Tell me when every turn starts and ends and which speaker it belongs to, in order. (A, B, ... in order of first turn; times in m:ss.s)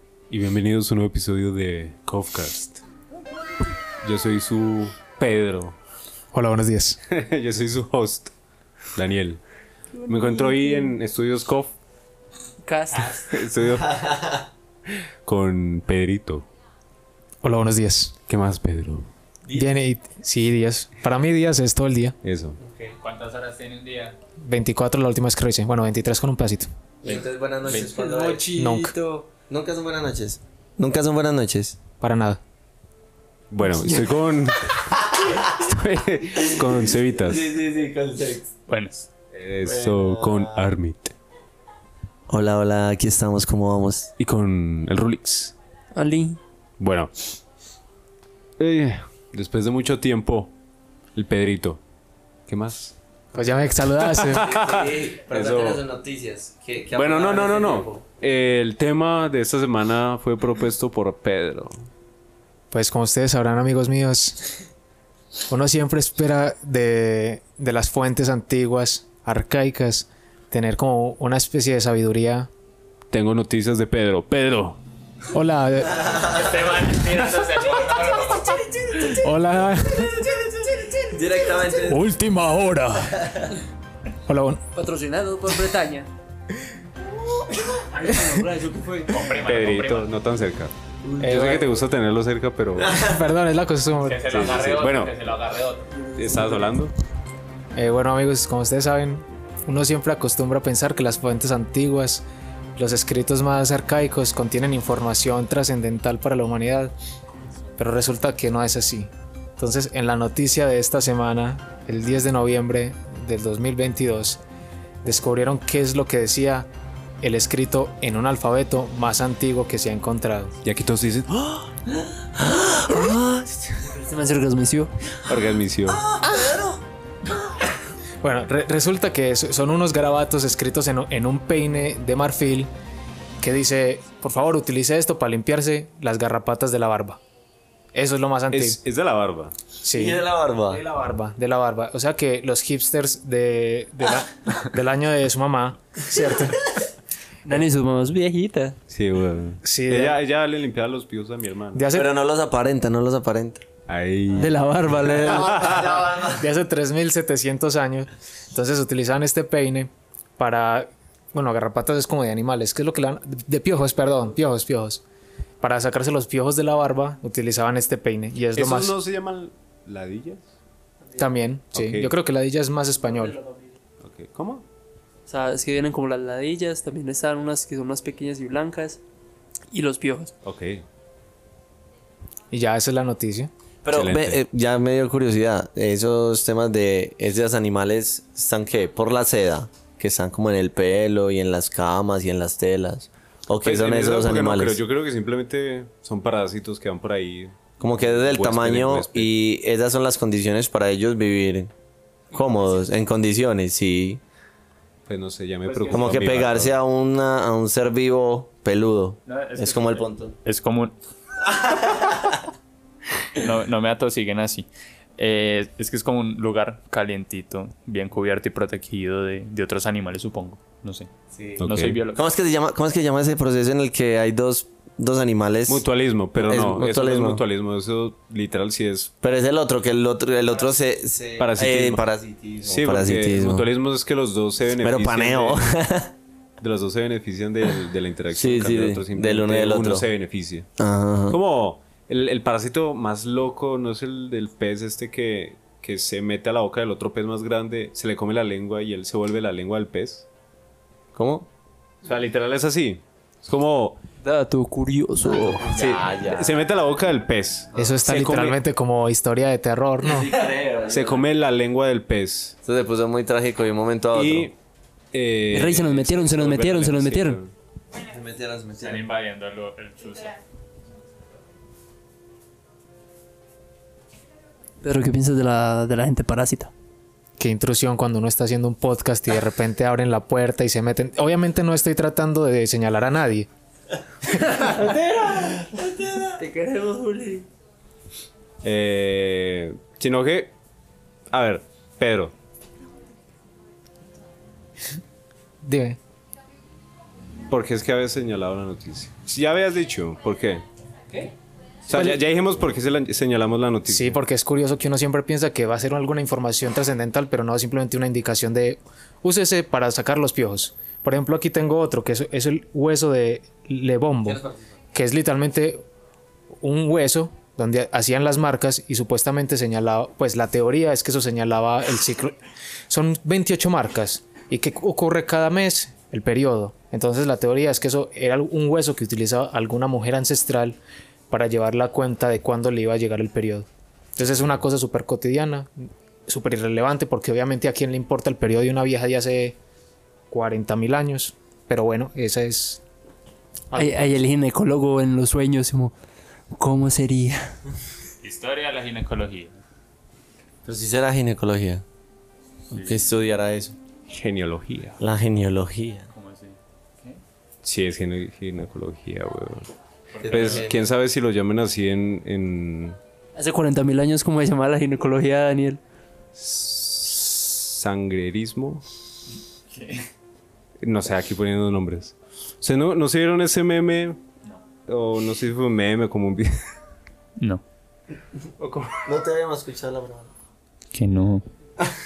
0:00.3-0:02.8 A
0:04.0-0:05.8 A
0:06.3-0:07.0 B
0:07.1-0:08.3 A
0:09.0-0:09.4 A
0:10.0-0:10.9 C
0:10.1-0:11.8 A
0:12.6-0:13.4 C
0:13.3-0:14.0 A
0:13.8-0:14.4 D
0:15.2-0:16.4 A
0:17.4-0:18.2 B
0:18.3-0:19.1 A
0:19.5-0:19.8 D
0:19.5-0:22.2 B
0:22.2-0:22.6 A
0:22.6-0:23.0 D
0:23.0-0:24.2 E
0:24.4-0:26.7 B
0:27.0-0:28.5 D
0:27.7-0:29.3 C
0:28.5-0:29.0 B
0:29.5-0:31.8 D
0:32.0-0:32.4 B
0:33.5-0:37.5 A
0:35.2-0:35.5 D
0:36.4-0:38.5 D
0:38.7-0:39.1 E
0:39.3-0:41.2 A
0:39.6-0:40.6 D
0:42.3-0:44.1 D
0:44.2-0:45.6 A
0:45.9-0:46.4 C
0:46.8-0:47.1 A
0:48.6-0:50.5 A
0:51.2-0:51.8 A
0:52.5-0:53.0 A
0:53.3-0:54.6 B
0:53.8-0:55.8 A
0:54.4-0:58.0 D
0:56.9-1:01.8 A
1:02.7-1:04.6 B
1:05.5-1:12.5 B
1:13.1-1:14.8 A
1:15.3-1:16.3 B
1:16.2-1:18.8 E
1:19.0-1:20.9 B
1:21.0-1:22.1 D
1:21.9-1:23.3 B
1:23.2-1:23.5 D
1:24.3-1:24.6 B
1:24.8-1:26.1 C
1:27.6-1:29.3 C
1:28.0-1:28.4 B
1:29.1-1:30.1 E
1:29.4-1:33.0 A
1:31.0-1:31.5 C
1:31.2-1:31.7 B
1:32.9-1:34.4 B
1:34.0-1:35.9 E
1:34.3-1:35.2 A
1:36.0-1:36.5 C
1:36.2-1:36.9 A
1:37.8-1:42.2 B
1:42.8-1:46.9 B
1:47.8-1:54.4 B
1:55.0-1:56.7 B
1:57.2-2:00.6 B
2:00.6-2:01.6 A
2:02.2-2:03.9 D
2:03.9-2:04.9 C
2:05.2-2:06.0 A
2:05.9-2:06.8 D
2:08.2-2:12.7 B
2:13.4-2:17.2 B
2:17.9-2:18.8 B
2:18.5-2:19.5 A
2:19.8-2:26.6 B
2:19.9-2:20.8 D
2:27.5-2:28.8 C
2:28.9-2:31.8 A
2:29.6-2:30.2 B
2:31.7-2:32.1 B
2:31.9-2:33.6 D
2:33.9-2:36.0 A
2:34.4-2:35.8 C
2:35.2-2:36.5 D
2:36.2-2:45.0 B
2:45.6-2:49.0 B
2:48.5-2:50.5 A
2:51.2-2:53.4 B
2:51.7-2:52.1 A
2:53.1-2:53.8 C
2:54.0-2:54.6 A
2:55.3-2:59.0 C
2:59.7-3:00.3 C
3:00.4-3:00.8 A
3:02.5-3:03.5 B
3:03.8-3:14.8 D
3:03.9-3:04.4 A
3:13.6-3:19.3 A
3:17.8-3:21.7 D
3:22.3-3:24.2 D
3:25.1-3:26.8 A
3:25.7-3:26.3 E
3:25.9-3:30.3 D
3:29.3-3:30.9 E
3:31.5-3:32.4 D
3:33.4-3:42.2 E
3:41.3-3:45.8 D
3:41.6-3:42.0 A
3:45.7-3:49.1 A
3:46.4-3:47.4 D
3:49.2-3:53.7 D
3:51.4-3:52.0 A
3:52.6-3:55.8 A
3:54.8-3:56.1 D
3:56.6-4:00.7 A
3:58.3-4:00.1 D
4:00.8-4:01.4 D
4:01.3-4:10.3 A
4:11.2-4:11.5 D
4:12.0-4:14.0 A
4:14.2-4:15.7 C
4:15.2-4:16.6 D
4:15.7-4:18.6 A
4:17.8-4:20.4 B
4:20.0-4:21.2 D
4:20.9-4:22.6 A
4:22.6-4:24.5 D
4:24.1-4:24.6 A
4:25.1-4:27.5 A
4:25.5-4:27.4 C
4:28.0-4:29.1 D
4:28.8-4:30.4 E
4:34.8-4:36.7 C
4:37.4-4:43.5 B
4:44.5-4:45.6 C
4:44.8-4:46.4 D
4:46.4-4:47.5 C
4:48.6-4:50.5 A
4:51.3-4:52.3 A
4:55.6-4:56.0 B
4:57.5-5:00.6 A
5:01.9-5:04.2 A
5:03.9-5:14.4 B
5:14.3-5:14.7 D
5:14.9-5:15.8 B
5:16.6-5:22.4 B
5:22.9-5:30.8 B
5:31.3-5:35.7 B
5:36.3-5:39.6 B
5:40.3-5:42.8 B
5:43.7-5:44.0 B
5:43.7-5:46.0 C
5:46.5-5:47.6 C
5:48.2-5:49.6 E
5:50.6-5:51.8 D
5:52.7-5:53.0 E
5:52.7-5:53.8 D
5:54.1-5:55.0 A
5:55.0-5:56.1 D
5:56.1-5:57.2 E
5:57.6-5:59.7 A
6:00.1-6:00.7 E
6:00.2-6:00.8 D
6:00.3-6:03.0 A
6:03.4-6:05.8 C
6:06.4-6:08.8 A
6:09.7-6:10.1 E
6:10.8-6:14.2 A
6:14.9-6:16.6 A
6:17.4-6:17.6 E
6:18.6-6:18.9 A
6:19.0-6:20.3 D
6:20.9-6:21.4 E